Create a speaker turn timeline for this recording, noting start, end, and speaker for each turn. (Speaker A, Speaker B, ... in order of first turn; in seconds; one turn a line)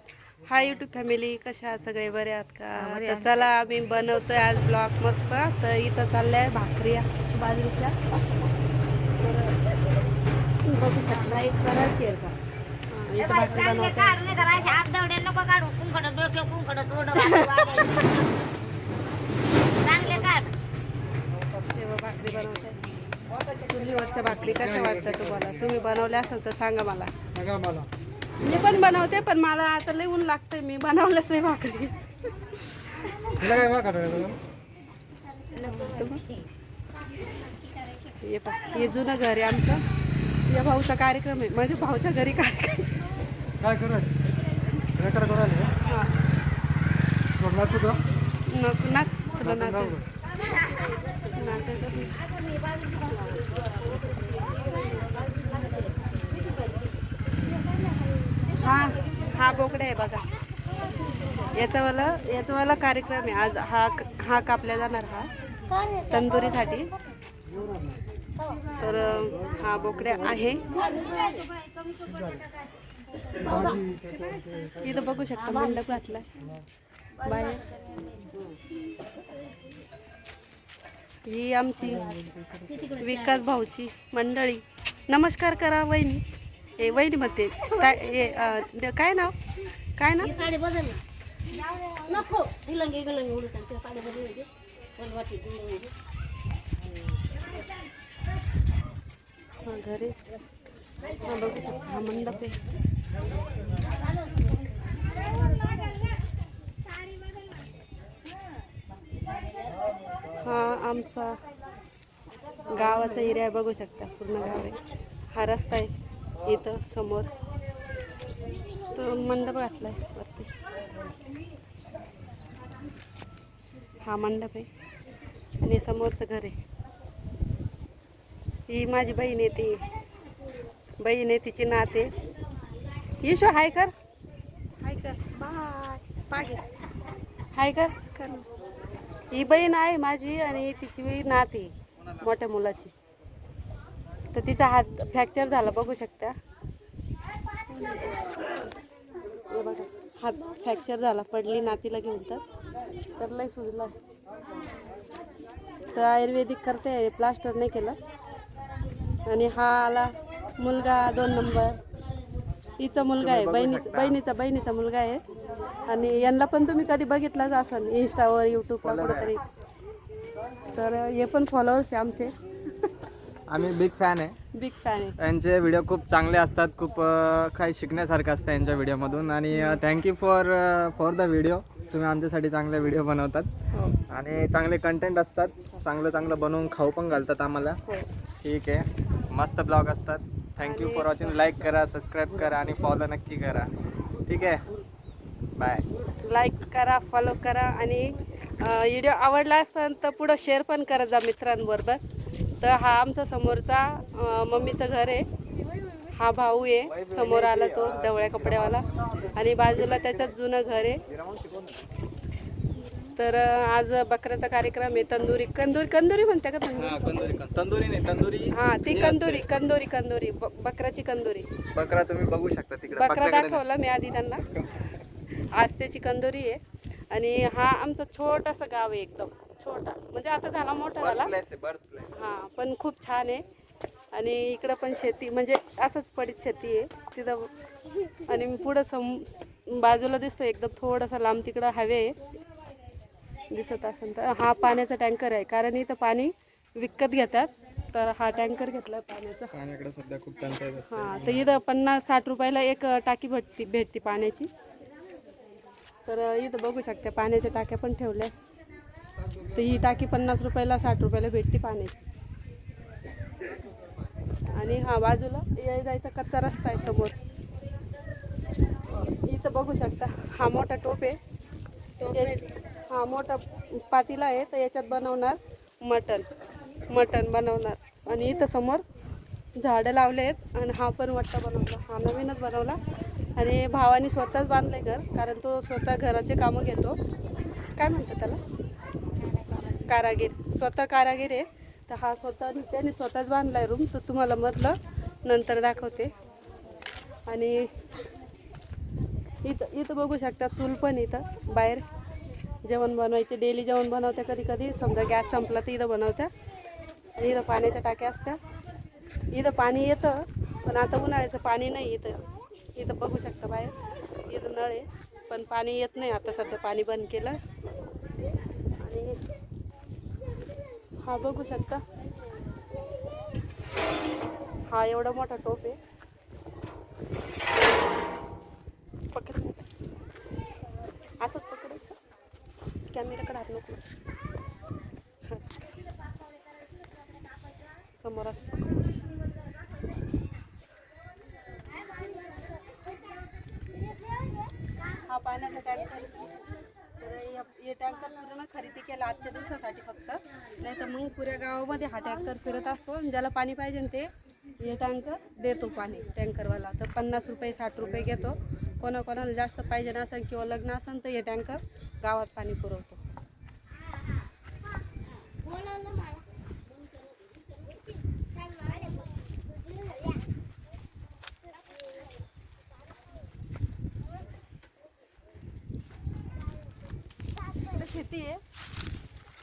Speaker A: 0.4-8.0
Speaker B: 2.8-3.3
Speaker A: 9.2-9.6
Speaker A: 10.7-11.4
Speaker B: 11.2-12.4
Speaker A: 12.9-14.4
Speaker B: 13.2-18.2
Speaker A: 17.1-18.0
Speaker B: 19.8-20.5
Speaker A: 21.7-22.8
Speaker A: 23.6-27.1
Speaker C: 24.6-25.6
Speaker C: 27.3-27.9
Speaker A: 28.4-33.6
Speaker C: 33.3-34.4
Speaker A: 35.5-36.2
Speaker B: 35.5-36.5
Speaker A: 38.2-39.8
Speaker A: 40.5-42.9
Speaker C: 43.6-44.2
Speaker C: 44.9-45.7
Speaker A: 45.8-46.2
Speaker C: 47.4-48.0
Speaker A: 48.5-50.0
Speaker C: 49.4-50.0
Speaker A: 51.3-52.2
Speaker A: 53.1-53.4
Speaker B: 54.2-56.8
Speaker A: 58.6-60.2
Speaker A: 61.5-65.3
Speaker B: 65.7-66.0
Speaker A: 66.1-66.9
Speaker A: 68.8-70.8
Speaker B: 70.7-72.3
Speaker C: 73.4-74.7
Speaker A: 74.8-76.3
Speaker A: 77.2-77.6
Speaker B: 78.0-78.5
Speaker A: 81.2-82.1
Speaker B: 82.7-83.1
Speaker A: 82.9-86.2
Speaker A: 86.8-89.3
Speaker A: 90.0-90.3
Speaker B: 90.3-91.0
Speaker B: 91.9-95.9
Speaker B: 96.9-97.1
Speaker A: 99.6-100.2
Speaker A: 101.2-102.6
Speaker A: 110.4-111.4
Speaker A: 112.7-115.9
Speaker A: 116.4-117.3
Speaker A: 118.9-120.5
Speaker A: 124.0-124.7
Speaker A: 125.6-126.5
Speaker A: 128.7-129.8
Speaker A: 131.0-132.1
Speaker A: 133.2-133.9
Speaker A: 134.8-136.6
Speaker A: 137.5-138.4
Speaker A: 139.3-142.9
Speaker A: 144.3-146.4
Speaker A: 147.7-148.2
Speaker A: 149.5-152.4
Speaker A: 153.2-153.9
Speaker A: 155.9-158.0
Speaker A: 159.2-161.8
Speaker A: 162.8-165.2
Speaker D: 163.2-164.2
Speaker A: 165.9-169.4
Speaker D: 168.8-169.3
Speaker A: 170.7-172.3
Speaker D: 173.5-174.3
Speaker A: 174.5-175.2
Speaker D: 175.2-183.5
Speaker A: 179.5-179.8
Speaker D: 184.1-187.8
Speaker D: 188.4-193.7
Speaker A: 190.6-191.6
Speaker D: 194.3-194.6
Speaker D: 195.6-195.8
Speaker A: 196.2-202.0
Speaker A: 202.6-205.2
Speaker A: 206.1-208.8
Speaker D: 206.9-208.8
Speaker A: 209.3-211.0
Speaker D: 209.8-210.2
Speaker D: 211.1-211.8
Speaker A: 213.2-217.4
Speaker D: 216.8-219.4
Speaker A: 218.5-221.5
Speaker D: 221.7-223.6
Speaker A: 222.9-224.4
Speaker A: 225.5-226.6
Speaker A: 227.1-231.3
Speaker D: 231.0-232.1
Speaker A: 232.1-233.4
Speaker A: 234.1-237.5
Speaker A: 238.2-242.1
Speaker A: 243.5-249.5
Speaker D: 249.5-251.6
Speaker A: 250.9-254.5
Speaker A: 256.1-258.3
Speaker A: 259.5-262.0
Speaker A: 264.5-267.4
Speaker A: 269.0-271.2
Speaker B: 272.0-272.5
Speaker A: 272.1-276.3
Speaker A: 276.9-278.8
Speaker A: 279.6-282.8
Speaker A: 283.4-286.9
Speaker A: 287.8-288.4
Speaker A: 289.6-296.1
Speaker A: 297.3-297.7
Speaker A: 299.4-301.8
Speaker A: 302.6-306.3
Speaker A: 307.1-308.4
Speaker A: 309.3-312.2
Speaker A: 312.8-313.7
Speaker A: 314.3-317.4
Speaker A: 318.8-319.2
Speaker A: 321.0-321.8
Speaker A: 324.7-325.8
Speaker A: 329.1-329.7
Speaker A: 331.2-332.0
Speaker A: 332.9-333.8
Speaker A: 338.0-338.6
Speaker A: 345.1-346.4
Speaker A: 347.0-354.1
Speaker A: 354.6-363.0
Speaker A: 377.6-378.4